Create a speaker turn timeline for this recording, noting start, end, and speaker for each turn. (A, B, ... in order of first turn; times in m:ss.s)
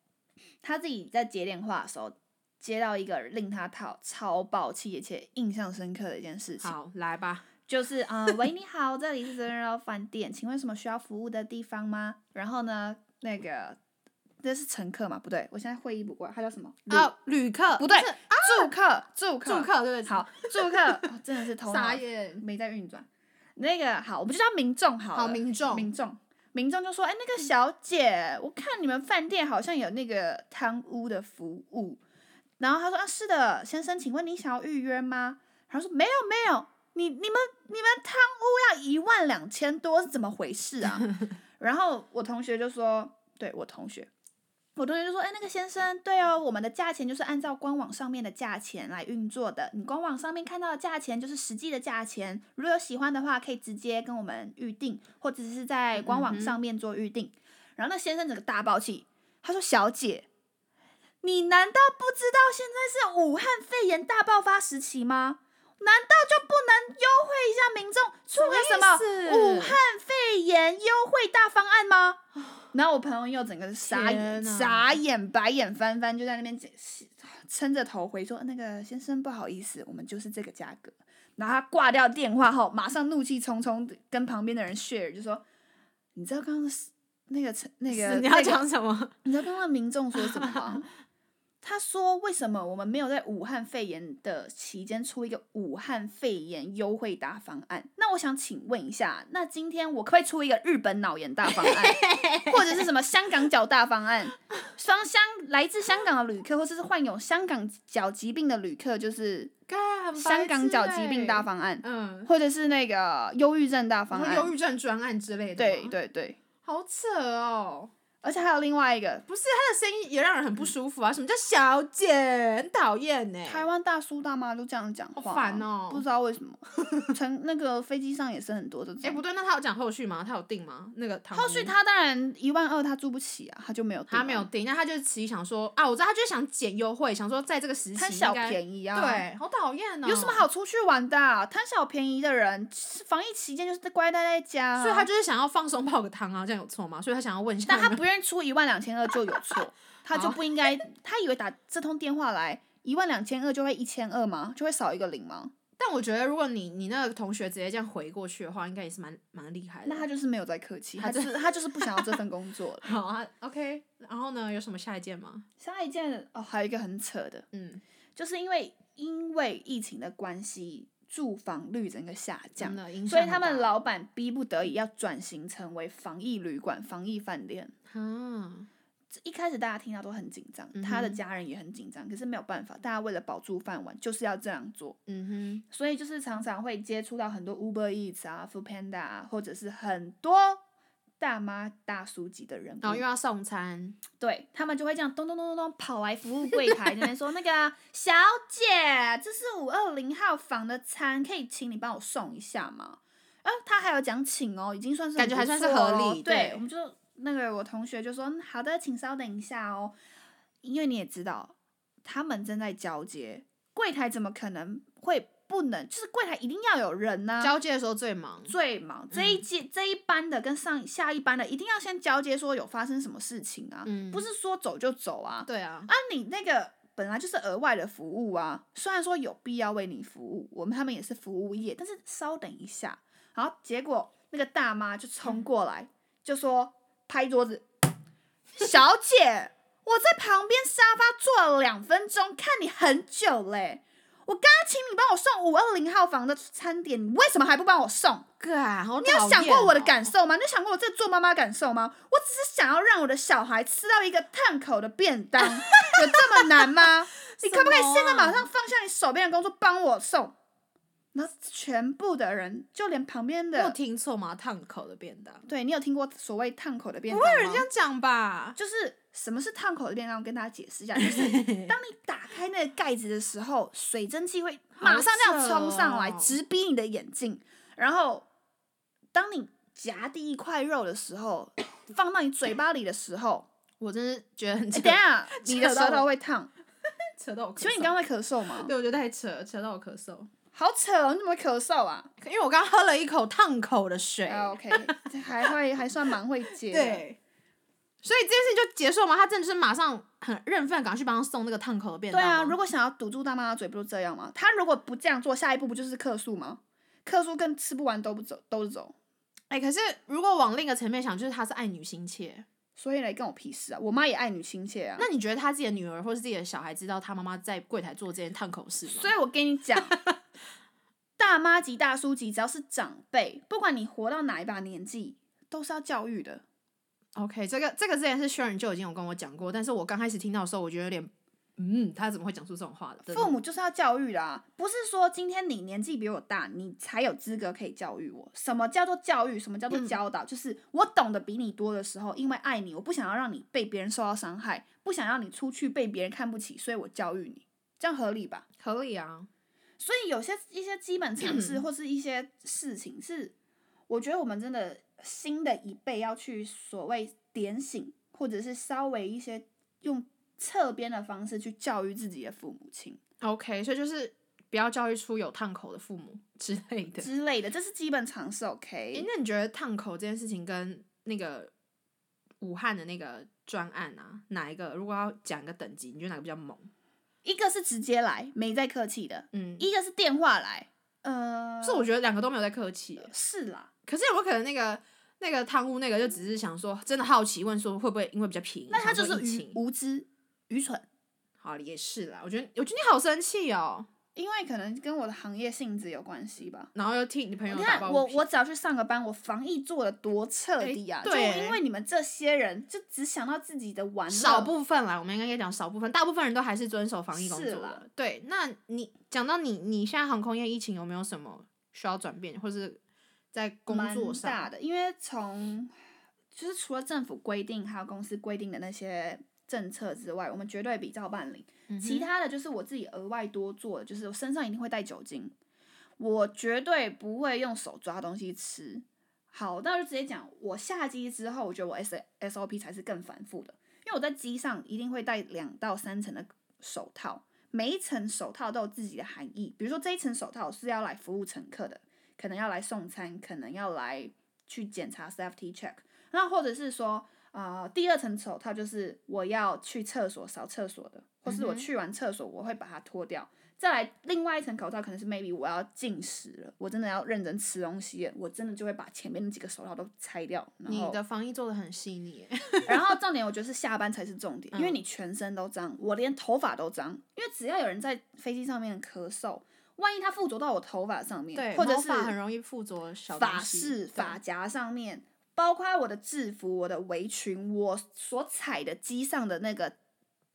0:00.6-0:06.7 A
0:06.6-0:07.4 B
0:07.7-0:13.8 A
0:14.4-0:17.1 A
0:16.9-0:18.7 B
0:17.7-0:32.0 A
0:19.4-0:20.8 B
0:21.6-0:22.4 B
0:25.1-0:25.9 B
0:32.6-0:44.1 A
0:44.8-1:00.3 A
0:56.0-0:56.6 B
1:01.2-1:12.2 A
1:08.3-1:09.8 B
1:12.7-1:25.4 A
1:13.8-1:15.0 B
1:26.1-1:28.6 A
1:27.9-1:29.1 B
1:29.2-1:30.9 A
1:30.1-1:30.8 B
1:31.6-1:49.5 A
1:41.5-1:42.9 B
1:49.7-1:52.3 B
1:50.1-1:54.5 A
1:54.1-1:56.0 B
1:55.6-1:56.4 A
1:56.6-1:57.9 B
1:58.2-1:59.2 A
1:59.3-2:03.7 B
2:03.4-2:09.2 A
2:05.1-2:06.0 B
2:06.8-2:07.1 B
2:09.0-2:11.7 B
2:11.3-2:14.5 A
2:14.1-2:20.5 B
2:17.9-2:19.2 A
2:20.0-2:25.1 A
2:24.8-2:28.0 B
2:27.6-2:35.5 A
2:30.1-2:30.5 B
2:35.8-2:40.1 B
2:39.9-2:42.9 A
2:41.0-2:42.2 B
2:42.8-2:45.4 B
2:45.6-2:47.4 A
2:47.5-2:47.8 B
2:48.2-2:57.7 A
2:52.6-2:53.7 B
2:57.9-2:58.7 B
2:59.1-3:05.0 A
3:00.7-3:01.2 B
3:05.1-3:05.6 B
3:05.7-3:10.6 A
3:11.2-3:13.0 A
3:12.8-3:14.0 B
3:14.2-3:30.0 A
3:25.2-3:26.6 B
3:30.6-3:37.5 A
3:37.4-3:38.5 B
3:38.5-3:57.7 A
3:39.1-3:39.4 B
3:43.9-3:44.2 B
3:45.4-3:45.9 B
3:58.5-4:08.3 A
4:08.4-4:10.1 B
4:09.0-4:20.4 A
4:15.6-4:18.5 B
4:21.1-4:23.8 A
4:23.6-4:25.4 B
4:25.5-4:27.6 A
4:27.1-4:28.6 B
4:28.6-4:38.3 A
4:31.0-4:31.7 B
4:34.8-4:36.4 B
4:39.1-4:43.5 A
4:43.8-4:46.1 B
4:44.7-4:46.5 A
4:47.2-4:48.0 B
4:47.6-4:48.7 A
4:48.6-4:50.3 B
4:50.5-4:52.1 A
4:52.2-4:55.5 B
4:54.2-4:57.0 A
4:56.6-4:57.2 B
4:58.0-5:02.6 B
5:02.1-5:08.9 A
5:09.5-5:12.4 B
5:12.8-5:15.1 A
5:15.0-5:19.1 B
5:18.8-5:20.0 A
5:19.9-5:20.2 B
5:21.2-5:26.4 A
5:27.2-5:33.4 B
5:33.1-5:48.4 A
5:39.7-5:40.0 B
5:48.6-5:49.3 B
5:49.8-5:53.3 A
5:51.2-5:51.6 B
5:53.9-6:03.0 A
6:03.2-6:07.1 B
6:07.0-6:09.1 A
6:08.9-6:11.5 B
6:12.4-6:16.7 B
6:17.2-6:21.9 A
6:19.3-6:19.7 B
6:21.6-6:23.1 B
6:23.0-6:23.7 A
6:23.9-6:29.6 B
6:28.7-6:30.9 A
6:31.4-6:33.9 B
6:34.2-6:36.7 A
6:36.7-6:38.2 B
6:37.5-6:44.5 A
6:40.6-6:41.6 B
6:44.1-6:52.8 B
6:47.1-6:47.8 A
6:53.3-6:54.5 B
6:53.7-6:55.8 A
6:56.3-7:05.3 A
7:01.7-7:02.1 B
7:06.0-7:41.0 A
7:31.2-7:31.7 B
7:40.7-7:42.9 B
7:42.7-7:52.2 A
7:44.5-7:44.8 B
7:51.3-7:54.2 B
7:53.1-7:59.8 A